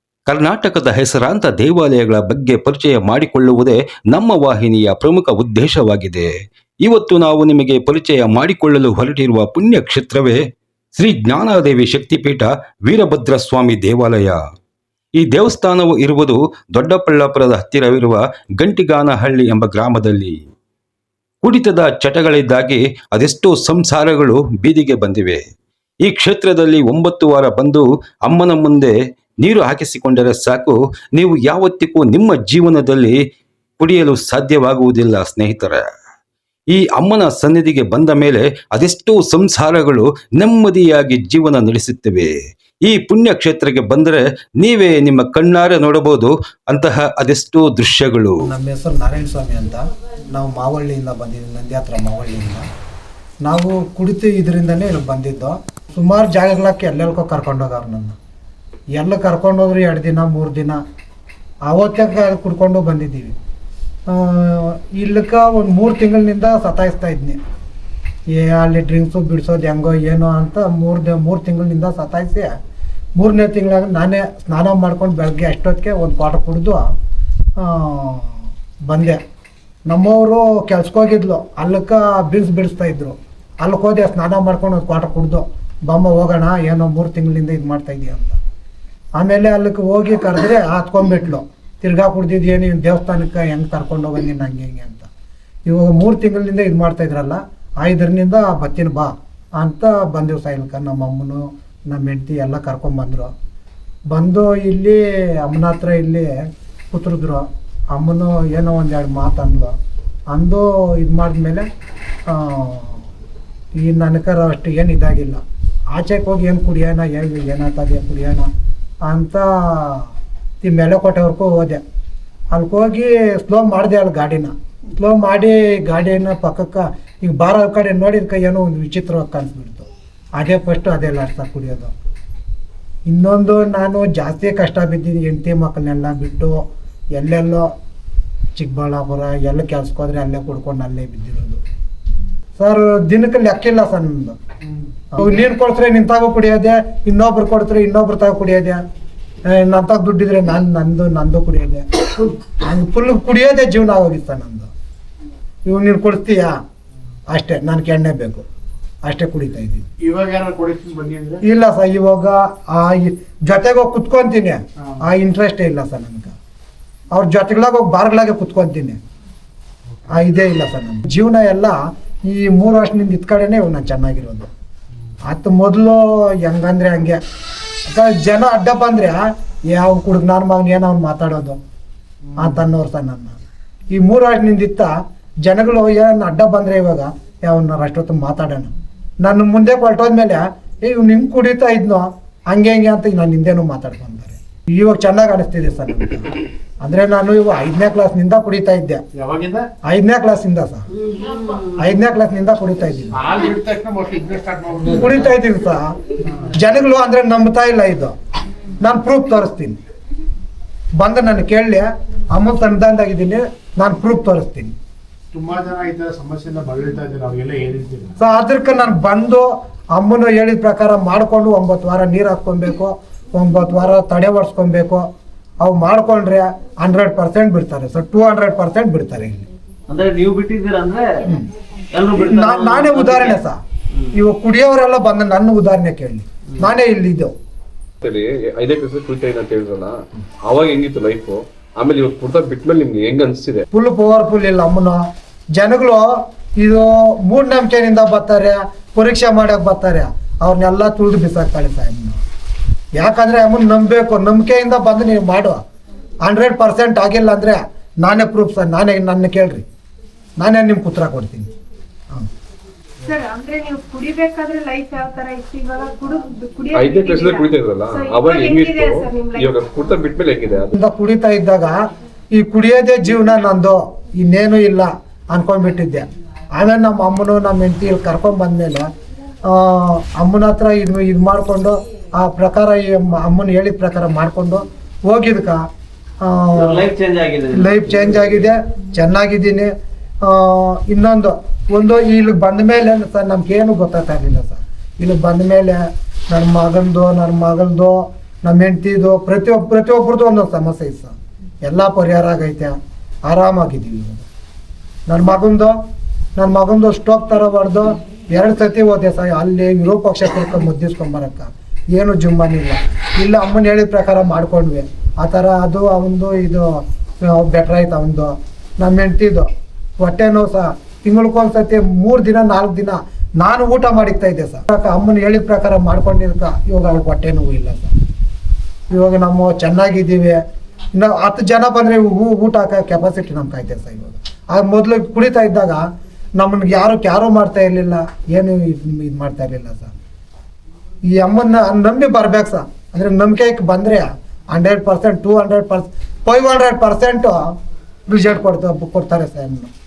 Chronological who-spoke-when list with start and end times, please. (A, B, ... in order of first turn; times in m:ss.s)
0:00.3-0:06.3 A
0:06.8-0:10.4 A
0:11.0-0:14.4 A
0:15.2-0:20.4 A
0:21.4-0:25.4 A
0:26.0-0:33.2 A
0:33.8-0:35.8 A
0:36.7-0:42.3 A
0:42.9-0:48.4 A
0:48.4-0:52.6 B
0:53.4-0:58.2 B
0:59.0-1:00.8 B
1:01.7-1:03.3 B
1:04.1-1:07.4 B
1:08.3-1:12.5 B
1:13.2-1:16.8 B
1:17.6-1:18.4 B
1:18.9-1:19.2 B
1:19.9-1:28.4 B
1:29.2-1:35.1 B
1:35.7-1:43.3 B
1:44.1-1:46.3 B
1:46.9-1:49.7 B
1:50.3-1:51.7 B
1:52.3-1:53.0 B
1:53.8-1:55.4 B
1:55.9-1:58.5 B
1:59.1-2:00.1 B
2:00.6-2:01.8 B
2:02.5-2:11.9 B
2:13.1-2:16.6 B
2:17.2-2:17.7 B
2:18.6-2:21.6 B
2:22.6-2:24.4 B
2:25.1-2:28.8 B
2:29.5-2:34.7 B
2:35.7-2:36.6 B
2:37.3-2:38.4 B
2:39.0-2:39.9 B
2:40.0-2:41.4 C
2:41.4-2:46.3 B
2:47.1-2:49.0 B
2:50.1-2:54.5 B
2:55.3-2:57.2 B
2:57.9-3:01.6 B
3:02.3-3:02.6 C
3:02.4-3:03.4 B
3:03.9-3:04.9 B
3:05.4-3:16.3 B
3:16.8-3:19.0 B
3:19.2-3:19.7 C
3:19.9-3:20.8 B
3:21.8-3:23.2 B
3:23.2-3:25.3 C
3:24.9-3:25.9 B
3:26.5-3:28.1 B
3:28.8-3:29.8 B
3:31.0-3:34.7 B
3:35.3-3:38.1 C
3:38.2-3:45.1 B
3:45.6-3:49.5 B
3:49.9-3:51.2 D
3:51.9-3:53.4 D
3:52.2-3:53.6 B
3:54.1-3:57.3 B
3:58.0-3:59.9 E
4:00.5-4:03.6 E
4:03.7-4:05.0 B
4:05.6-4:06.1 B
4:06.6-4:12.2 B
4:13.0-4:15.6 B
4:16.2-4:19.6 B
4:20.4-4:21.5 B
4:23.0-4:29.6 F
4:26.8-4:30.8 E
4:30.8-4:31.8 B
4:32.3-4:38.9 B
4:39.5-4:45.6 B
4:46.2-4:46.9 B
4:46.6-4:48.4 D
4:47.5-4:49.7 B
4:50.2-5:01.1 B
5:01.6-5:02.7 B
5:03.3-5:04.2 B
5:05.1-5:05.7 B
5:06.4-5:19.5 B
5:20.0-5:27.9 B
5:28.9-5:30.4 B
5:31.0-5:35.8 B
5:36.4-5:39.9 B
5:41.1-5:47.4 B
5:48.1-5:49.7 B